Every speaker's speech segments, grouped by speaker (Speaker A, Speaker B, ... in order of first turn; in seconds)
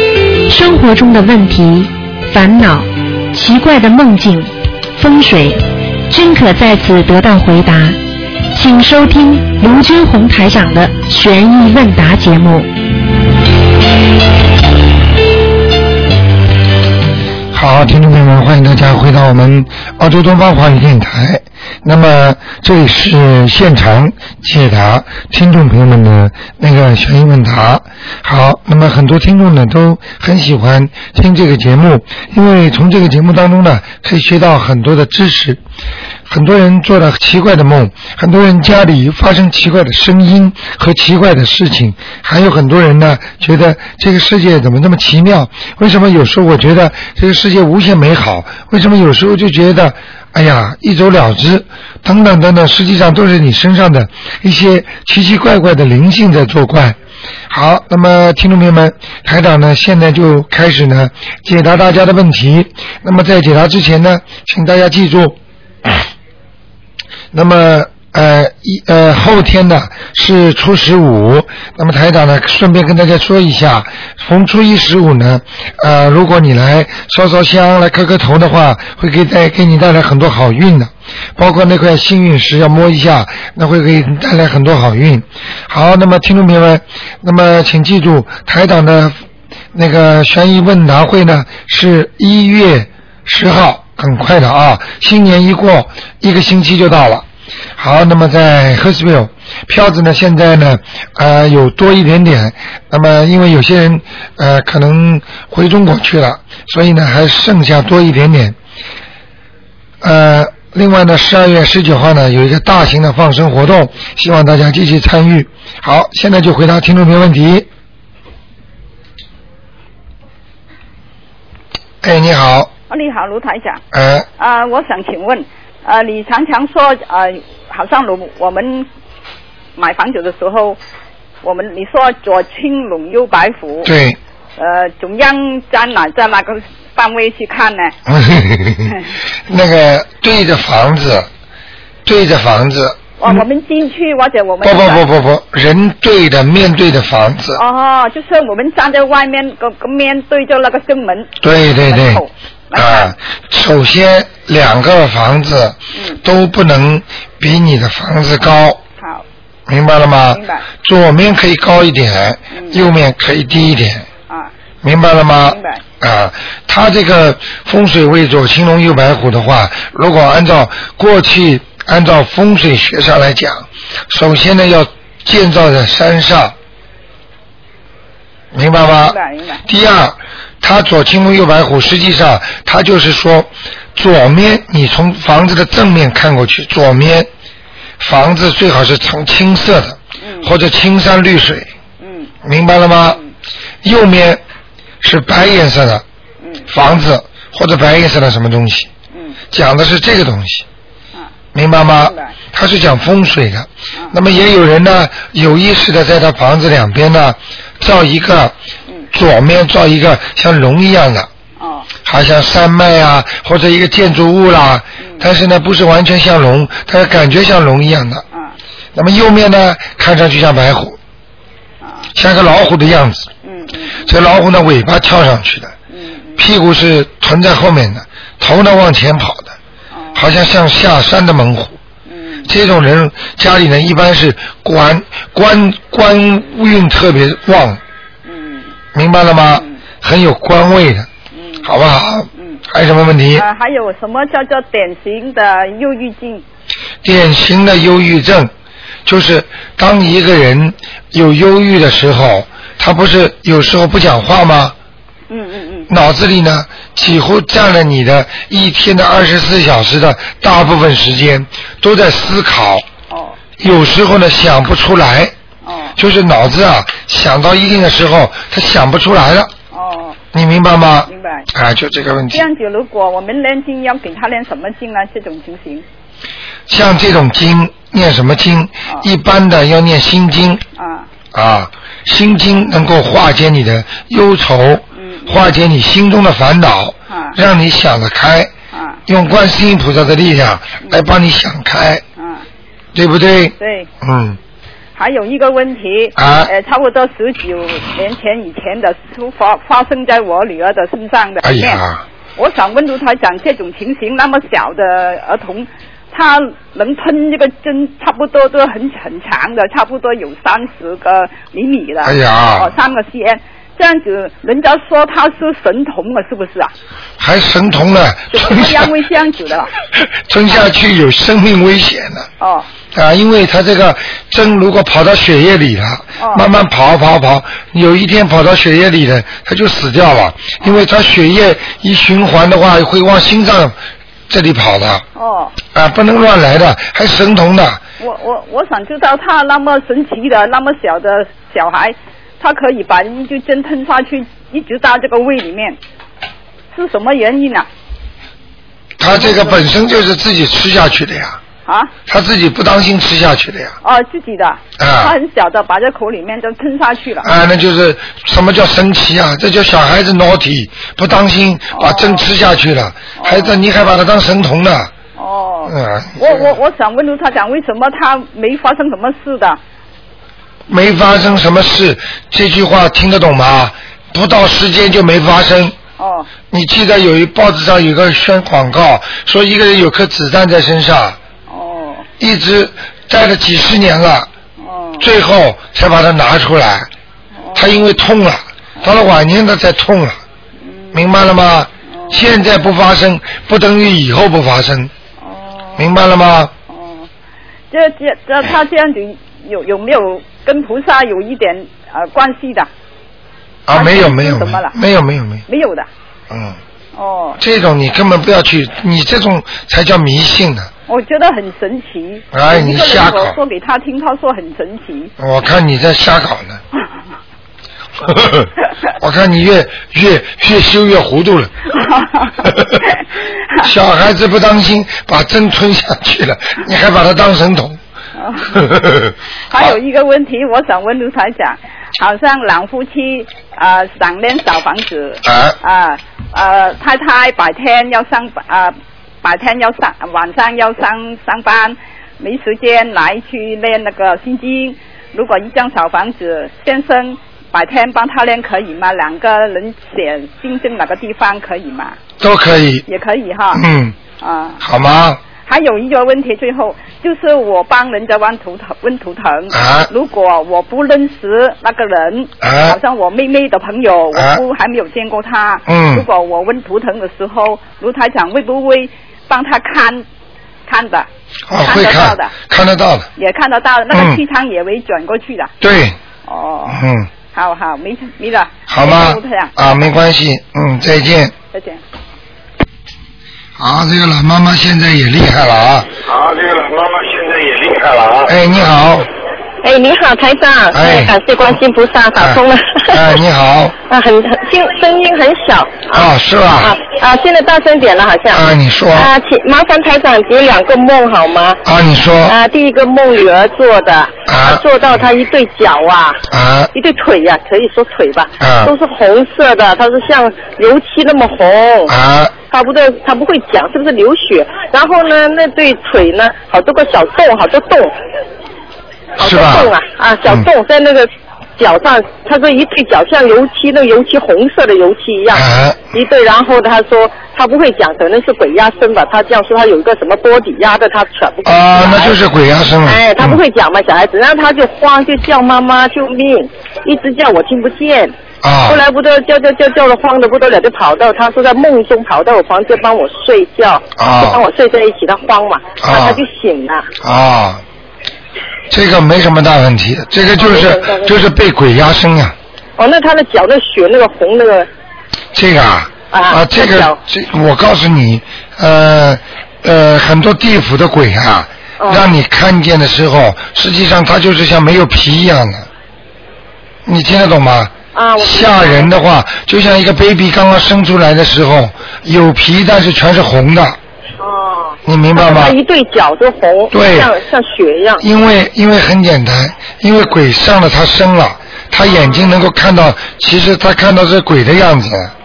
Speaker A: 0.5-8.0, 8.5-12.7
Speaker B: 17.5-35.6, 36.3-57.0, 57.5-66.0, 67.3-89.2, 89.7-97.2, 97.8-108.5, 110.0-117.7, 122.0-122.7, 123.9-124.3, 133.8-134.2, 138.1-141.3, 142.0-143.4, 144.6-147.6, 151.4-152.2, 152.8-158.8, 159.7-164.1, 164.8-176.5, 178.5-187.3, 188.0-191.7, 192.4-193.2, 193.8-194.4, 195.0-196.0, 196.7-198.9, 199.5-200.6, 201.5-208.5, 209.1-211.3, 212.0-218.2, 218.9-221.0, 222.1-223.3, 224.1-225.7, 226.4-229.5, 230.1-231.8, 232.4-237.8, 238.9-241.1, 241.6-243.4, 247.0-248.5, 249.1-254.8, 255.9-262.8, 263.6-265.3, 266.0-269.5, 270.3-272.5, 276.7-280.6, 281.3-288.5, 289.1-292.0, 292.9-294.4, 296.2-296.5, 301.4-302.0, 312.0-312.7, 317.2-318.9, 319.9-322.3, 322.9-333.8, 334.3-335.0, 335.7-337.8, 349.0-351.4, 352.1-353.8, 354.8-355.1, 357.2-364.9, 365.7-366.6, 370.7-375.8, 376.5-381.2, 382.2-384.3, 385.0-386.9, 387.6-390.2, 390.9-394.9, 395.8-396.5, 403.7-405.4, 406.3-406.6, 407.4-410.7, 412.3-413.4, 415.2-416.6, 418.1-421.5, 422.4-422.8, 423.6-427.8, 428.6-429.8, 435.2-435.6, 452.2-452.8, 453.5-453.9, 454.6-455.2, 459.5-459.9, 462.4-462.8, 464.1-464.4, 465.7-466.1, 471.5-473.1, 473.9-474.2, 475.6-476.0, 476.7-477.1, 478.7-481.3, 483.6-485.9, 488.2-489.1, 490.7-491.1, 492.2-493.8, 495.9-496.8, 498.3-499.1, 501.6-502.4, 504.3-504.6, 506.3-506.7, 508.4-508.7, 511.9-512.3, 519.2-519.7, 525.3-525.8, 531.5-533.4, 538.4-538.8, 544.0-544.4, 545.8-546.2, 547.0-547.6, 548.7-552.4, 555.3-565.7, 566.9-573.8, 574.9-575.5, 576.7-577.1, 578.0-585.1
Speaker C: 122.9-123.8, 124.4-128.9, 129.8-130.8, 131.4-133.9, 134.6-137.9, 143.2-145.1, 147.6-151.3, 151.8-153.1, 155.9-156.2, 160.3-160.7, 162.5-162.8, 165.5-165.8, 179.0-179.6, 190.2-190.5, 192.0-192.3, 199.1-199.4, 201.9-202.3, 211.6-211.9, 221.8-222.1, 223.4-224.1, 225.9-226.4, 229.9-230.2, 232.1-232.5, 238.2-238.7, 241.3-241.7, 243.3-246.4, 255.3-255.9, 263.1-263.4, 265.6-265.9, 269.7-270.2, 271.1-271.5, 272.3-275.8, 280.8-281.1, 285.0-285.5, 287.1-287.4, 288.7-289.0, 292.2-292.4, 293.6-293.9, 294.9-301.8, 302.4-316.7, 318.3-319.7, 322.4-322.6, 326.2-326.5, 335.1-335.6, 338.0-345.8, 346.7-347.7, 349.1-349.6, 351.7-351.9, 353.8-357.3, 361.7-362.3, 363.2-363.6, 365.1-369.6, 376.0-376.3, 381.5-382.1, 384.6-385.1, 387.4-387.9, 390.6-391.0, 391.9-392.2, 395.2-395.9, 396.7-397.1, 397.7-402.7, 403.7-404.8, 405.5-405.9, 406.9-407.4, 410.9-415.1, 421.7-423.0, 428.2-428.7, 429.5-451.9, 452.9-453.6, 454.2-454.6, 455.4-470.0, 470.6-471.1, 471.6-472.3, 473.2-475.5, 476.2-479.7, 481.5-481.8
Speaker D: 486.1-488.3
Speaker E: 489.6-493.0, 493.9-501.6, 502.2-511.9, 512.5-518.0, 519.2-532.1, 532.8-538.1, 538.7-546.9, 550.4-551.2, 552.8-554.7, 556.1-557.0, 561.8-562.1, 567.9-568.9, 574.2-578.0, 581.8-582.4